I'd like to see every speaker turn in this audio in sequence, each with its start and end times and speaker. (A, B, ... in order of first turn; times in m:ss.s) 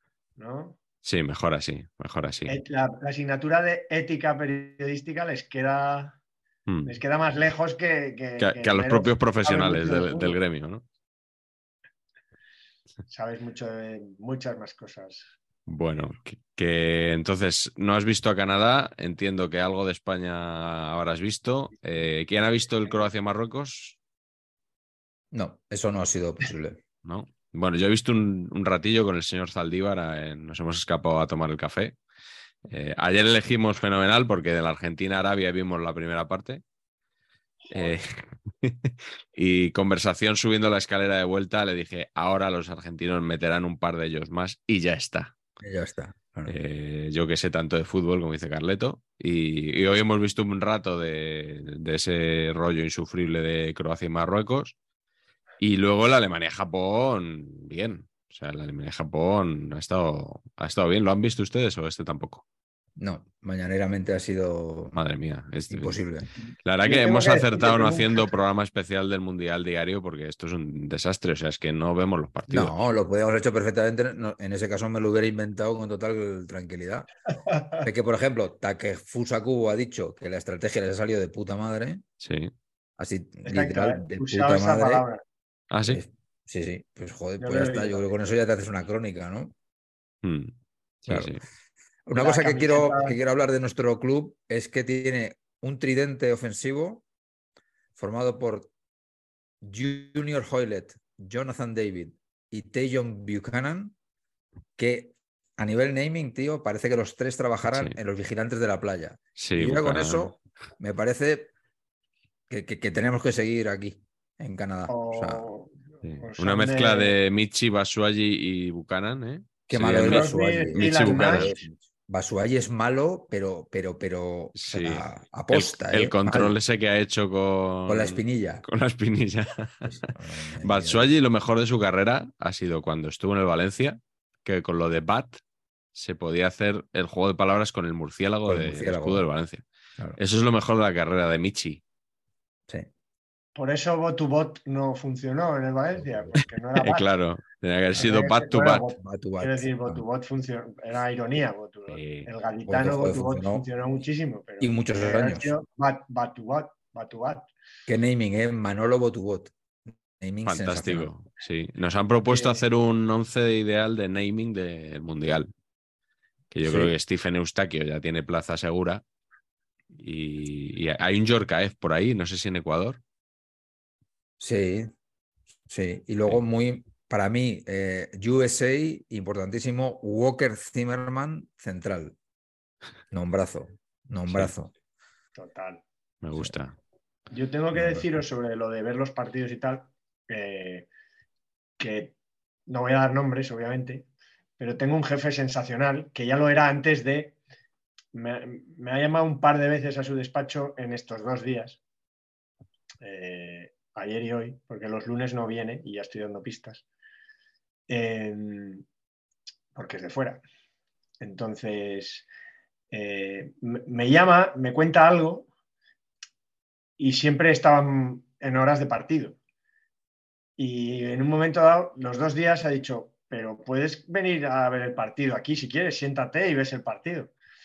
0:00.4-0:00.8 A
0:01.0-0:02.6 B
0:02.5-0:06.2 A
0:06.7-0:07.0 B
0:06.9-0:10.4 A
0:08.4-0:10.8 B
0:13.1-0:15.4 A
0:15.7-0:24.0 B
0:25.3-0:26.8 C
0:27.0-0:32.0 B
0:32.7-0:36.6 B
0:37.7-0:37.9 A
0:37.7-0:45.4 B
0:45.6-0:46.6 C
0:46.5-0:54.8 B
0:55.6-1:02.4 B
1:03.0-1:05.0 C
1:04.9-1:06.0 B
1:05.7-1:06.3 C
1:06.6-1:12.7 B
1:06.8-1:08.3 A
1:12.5-1:17.1 C
1:17.5-1:17.9 A
1:17.8-1:22.0 C
1:22.2-1:22.5 B
1:23.0-1:25.1 C
1:23.4-1:25.2 A
1:25.7-1:26.0 B
1:25.8-1:29.6 C
1:27.4-1:28.2 A
1:30.2-1:30.5 B
1:31.0-1:31.4 B
1:31.1-1:31.4 C
1:32.1-1:37.0 C
1:32.2-1:33.2 A
1:38.0-1:38.7 C
1:39.6-1:44.0 C
1:44.8-1:51.5 C
1:49.4-1:50.3 B
1:52.5-1:55.5 C
1:54.9-1:57.2 A
1:56.0-2:01.5 B
1:59.7-2:06.6 C
2:00.0-2:01.6 A
2:04.6-2:10.1 B
2:07.9-2:08.6 C
2:09.9-2:11.1 C
2:10.6-2:15.4 B
2:16.0-2:19.6 B
2:18.5-2:19.2 C
2:20.2-2:21.8 B
2:23.6-2:27.1 A
2:26.0-2:26.4 C
2:26.8-2:28.8 B
2:28.0-2:37.5 A
2:29.0-2:30.0 C
2:31.9-2:32.3 B
2:32.6-2:34.0 C
2:34.6-2:35.5 C
2:37.9-2:39.5 C
2:40.2-2:41.1 C
2:40.4-2:45.5 B
2:42.3-2:42.6 A
2:46.5-2:49.0 B
2:46.6-2:46.9 C
2:49.9-2:53.0 B
2:54.4-2:54.9 C
2:55.7-3:02.2 C
3:03.1-3:04.7 C
3:05.4-3:05.8 A
3:06.2-3:06.8 B
3:07.3-3:10.9 A
3:07.7-3:08.1 C
3:11.8-3:12.1 A
3:12.7-3:14.1 A
3:14.6-3:17.4 A
3:18.1-3:21.8 A
3:23.0-3:26.8 A
3:27.9-3:28.8 A
3:29.8-3:30.4 A
3:31.2-3:32.3 A
3:32.9-3:35.5 A
3:37.0-3:39.4 A
3:40.6-3:47.3 A